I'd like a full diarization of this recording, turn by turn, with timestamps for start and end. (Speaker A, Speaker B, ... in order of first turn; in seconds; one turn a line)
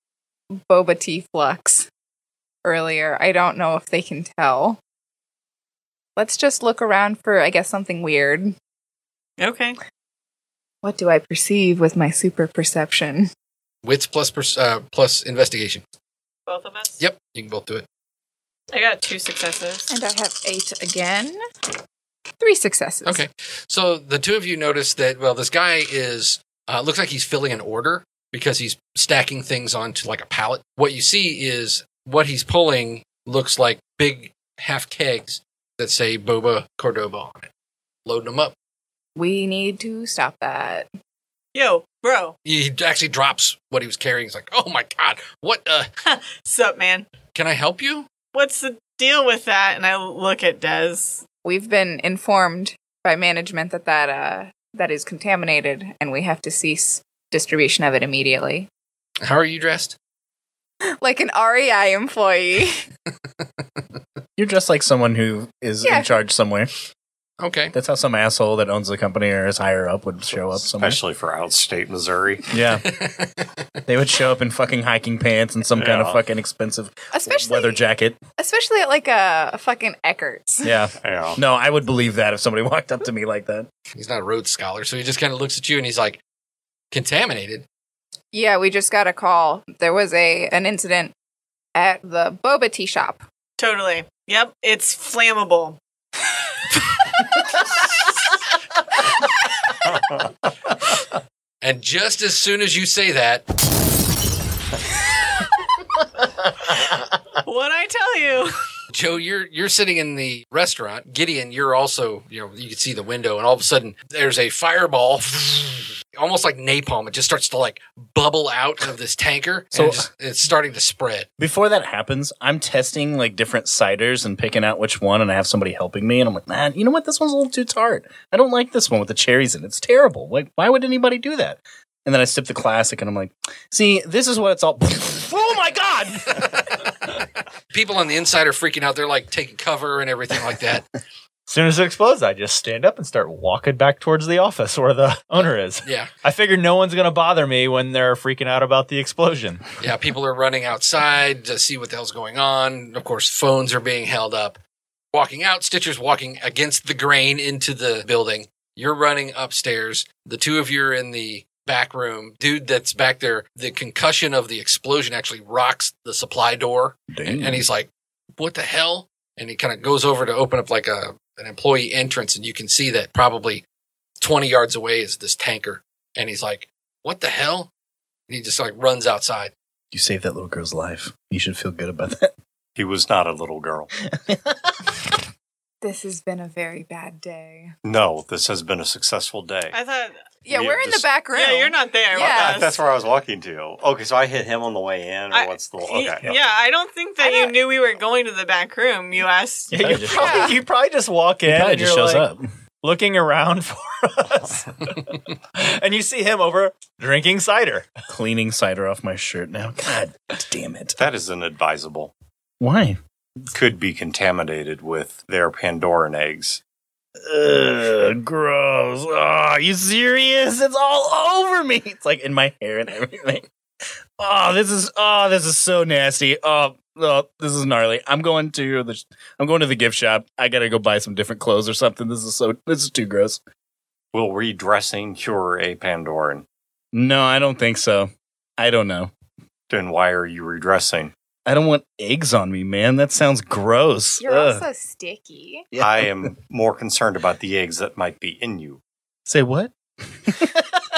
Speaker A: 0.7-1.9
Speaker A: 2.6-4.8
Speaker A: 6.2-8.5
Speaker B: 9.4-9.8
Speaker A: 10.8-13.3
Speaker C: 13.8-15.8
Speaker B: 16.5-17.0
Speaker C: 17.0-17.9
Speaker B: 18.7-19.9
Speaker A: 19.9-21.4
Speaker A: 22.4-23.2
Speaker C: 23.0-37.5
Speaker C: 38.0-38.5
Speaker A: 39.1-40.9
Speaker B: 41.5-42.3
Speaker C: 42.4-45.9
Speaker B: 46.0-47.1
Speaker C: 47.3-48.1
Speaker B: 48.3-51.2
Speaker A: 51.4-58.7
Speaker C: 59.2-60.0
Speaker A: 61.0-62.8
Speaker D: 64.4-66.7
Speaker A: 65.8-66.2
Speaker C: 67.4-67.7
Speaker D: 67.7-71.0
Speaker E: 70.6-72.5
Speaker D: 72.5-72.9
Speaker C: 72.9-73.3
Speaker D: 73.9-78.2
Speaker E: 75.8-76.2
Speaker A: 77.1-77.8
Speaker A: 78.4-80.7
Speaker D: 80.6-83.7
Speaker E: 81.0-81.4
Speaker C: 83.9-86.2
Speaker C: 86.9-87.6
Speaker A: 88.3-91.1
Speaker A: 91.8-93.2
Speaker B: 93.6-95.8
Speaker B: 96.7-97.2
Speaker C: 101.6-103.4
Speaker B: 107.4-108.5
Speaker C: 108.9-121.3
Speaker D: 119.7-120.0
Speaker D: 121.4-136.8
Speaker C: 137.7-140.8
Speaker F: 141.5-149.6
Speaker C: 145.8-146.1
Speaker C: 149.8-154.6
Speaker C: 155.1-173.6
Speaker D: 167.1-167.6
Speaker C: 174.2-177.7
Speaker C: 178.3-179.5
Speaker D: 179.9-182.3
Speaker E: 182.8-183.9
Speaker D: 184.1-184.9
Speaker A: 185.8-187.7
Speaker E: 187.8-189.8
Speaker B: 189.7-190.2
Speaker A: 190.4-192.7
Speaker E: 190.5-191.1
Speaker B: 191.3-192.8
Speaker E: 192.1-196.3
Speaker B: 195.3-200.1
Speaker A: 197.2-197.5
Speaker F: 199.7-202.3
Speaker D: 199.8-200.5
Speaker A: 200.1-200.5
Speaker D: 201.4-202.5
Speaker F: 202.8-207.9
Speaker D: 208.1-211.0
Speaker E: 211.0-212.1
Speaker D: 212.6-213.0
Speaker E: 213.5-216.6
Speaker D: 217.2-223.4
Speaker D: 224.2-233.4
Speaker E: 234.1-236.4
Speaker D: 236.9-239.1
Speaker E: 239.7-241.1
Speaker D: 241.4-244.6
Speaker A: 244.2-245.7
Speaker D: 245.7-246.1
Speaker E: 245.8-248.8
Speaker D: 249.3-250.5